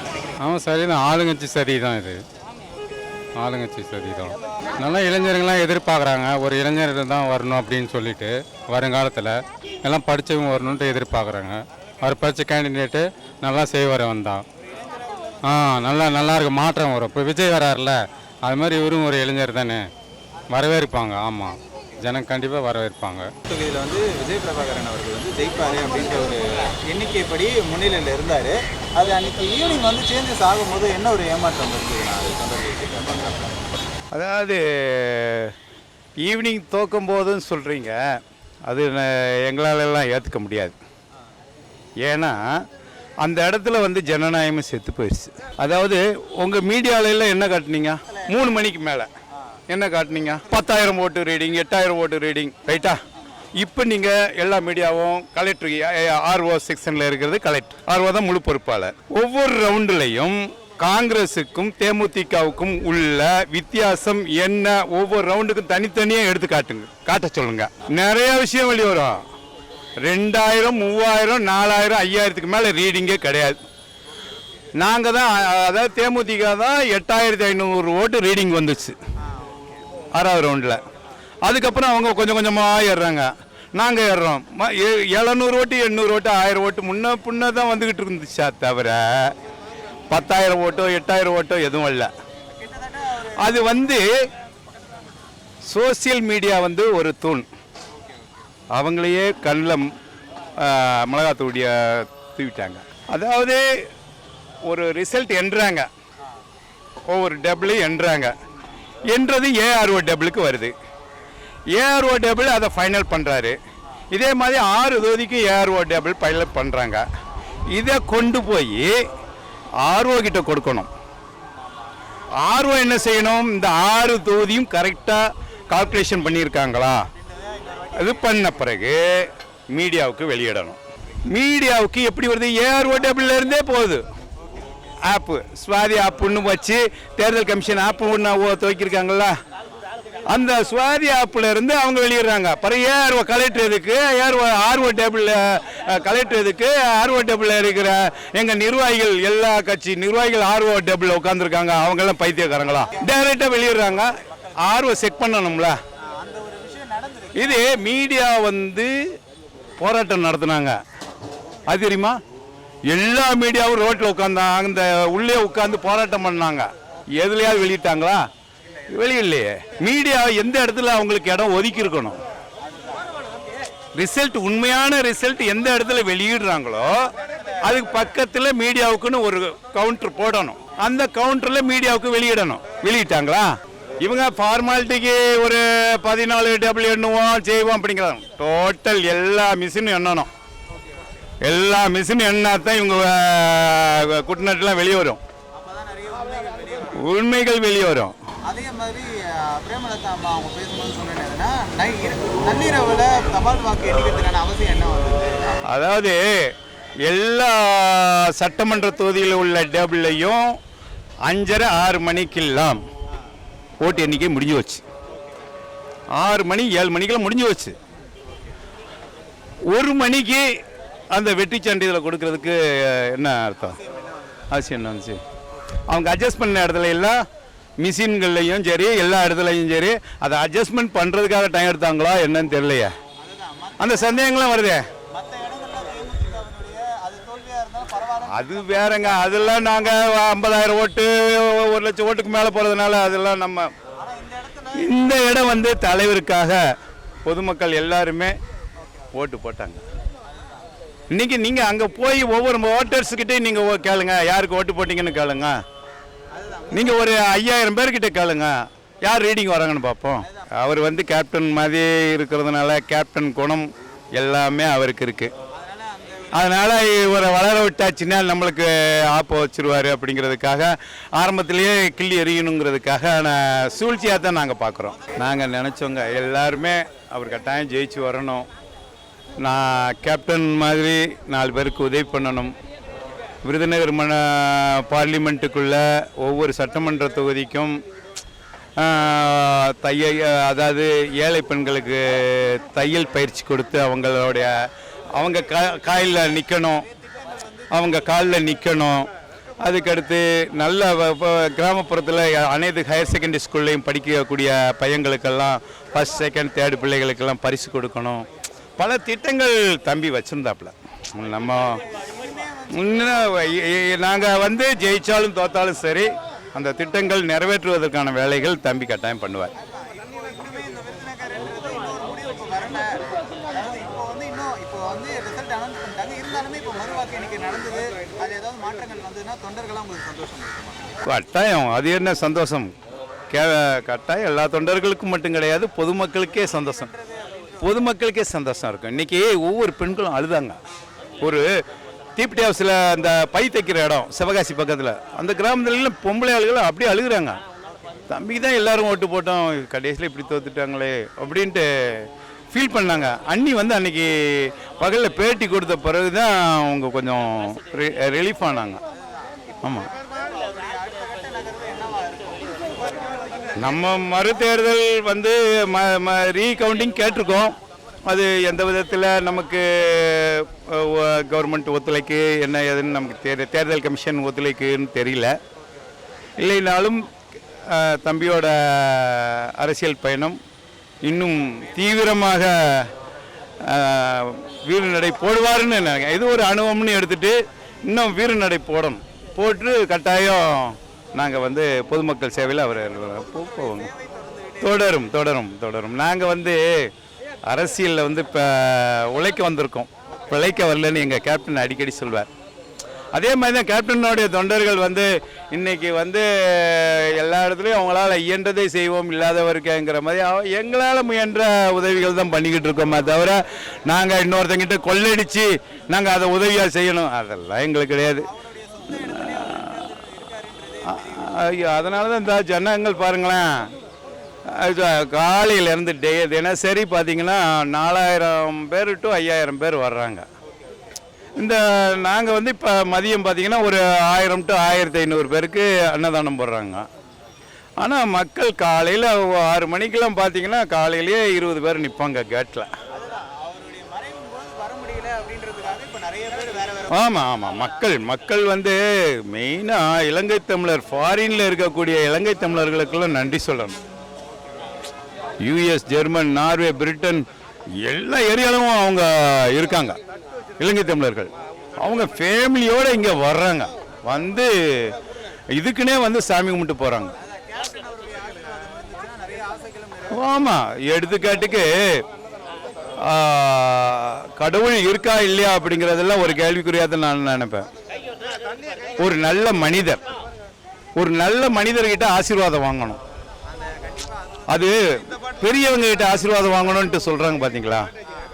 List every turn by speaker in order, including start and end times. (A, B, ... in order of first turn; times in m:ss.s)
0:00.4-0:02.2 A
0:03.4-0:14.4 A
0:15.5-0:19.8 A
0:20.5-0:23.3 A
0:23.5-0:33.6 B
0:34.1-0:35.5 C
0:36.2-0:38.0 C
0:38.7-0:40.8 C
0:42.0-0:42.4 C
0:43.2-0:49.1 C
0:49.7-0:53.0 C
0:53.6-1:09.2 C
1:10.0-1:13.6 C
1:14.8-1:19.0 C
1:19.3-1:19.7 B
1:20.2-1:20.8 C
1:21.4-1:29.3 C
1:30.1-1:32.1 C
1:32.5-1:33.6 B
1:33.4-1:34.1 C
1:35.7-1:37.5 C
1:38.7-1:39.9 C
1:40.6-1:43.6 C
1:44.7-1:45.9 C
1:47.1-1:48.4 C
1:49.1-1:50.7 C
1:51.8-1:53.6 C
1:54.1-1:57.0 C
1:57.7-1:58.9 C
1:59.8-2:00.9 C
2:02.4-2:07.0 C
2:07.2-2:08.3 B
2:08.0-2:10.8 C
2:11.3-2:14.0 C
2:15.1-2:19.3 C
2:20.3-2:34.1 C
2:34.3-2:34.5 B
2:34.6-2:35.8 C
2:36.2-2:37.7 B
2:37.4-2:38.9 C
2:39.8-2:40.8 C
2:41.7-2:42.2 C
2:42.9-2:46.7 C
2:47.2-2:48.3 C
2:48.9-2:52.2 C
2:54.0-2:56.9 C
2:57.2-2:57.5 B
2:57.6-3:10.3 C
3:11.4-3:15.2 C
3:15.6-3:17.0 B
3:17.0-3:18.1 C
3:18.5-3:25.6 B
3:25.7-3:26.2 C
3:27.1-3:30.4 C
3:31.3-3:32.8 C
3:33.8-3:34.8 C
3:36.2-3:37.7 C
3:39.7-3:40.4 C
3:41.1-3:43.8 C
3:44.5-3:45.2 C
3:45.9-3:47.2 C
3:47.8-3:52.9 C
3:53.2-3:54.4 B
3:53.8-3:54.8 C
3:55.1-3:59.6 B
3:58.3-4:03.7 C
4:04.0-4:05.0 B
4:04.8-4:06.6 C
4:07.2-4:08.3 C
4:09.1-4:09.8 C
4:11.1-4:15.6 C
4:16.3-4:17.0 B
4:16.7-4:25.3 C
4:20.2-4:20.5 B
4:25.5-4:26.4 B
4:26.4-4:38.5 C
4:39.4-4:42.5 C
4:43.4-4:47.8 C
4:48.8-4:54.5 C
4:55.2-4:56.8 C
4:57.7-4:59.1 C
4:59.6-5:08.2 C
5:08.8-5:11.8 C
5:12.1-5:12.8 B
5:12.7-5:19.5 C
5:19.6-5:31.0 B
5:31.1-5:32.7 C
5:33.3-5:36.9 C
5:36.5-5:37.2 B
5:37.6-5:40.6 C
5:42.2-5:47.4 C
5:48.1-5:58.8 C
5:59.6-5:59.9 C
6:00.0-6:03.7 B
6:03.6-6:07.6 C
6:08.1-6:15.3 C
6:16.4-6:17.0 C
6:17.7-6:20.4 C
6:21.0-6:22.9 C
6:23.7-6:27.4 C
6:27.9-6:33.9 C
6:33.7-6:34.6 B
6:34.6-6:36.9 C
6:37.5-6:42.3 C
6:43.2-6:58.2 C
6:58.2-7:01.0 B
6:59.1-6:59.7 C
7:00.9-7:03.7 C
7:04.5-7:10.3 C
7:11.4-7:16.8 C
7:17.8-7:22.7 C
7:22.9-7:27.0 B
7:26.9-7:28.8 C
7:29.3-7:33.8 C
7:35.4-7:37.2 C
7:37.8-7:40.0 C
7:40.6-7:44.9 C
7:45.6-7:47.1 C
7:47.2-7:50.1 B
7:50.2-7:51.7 C
7:53.1-7:57.7 C
7:59.0-8:00.0 C
8:01.0-8:03.0 C
8:04.5-8:07.9 C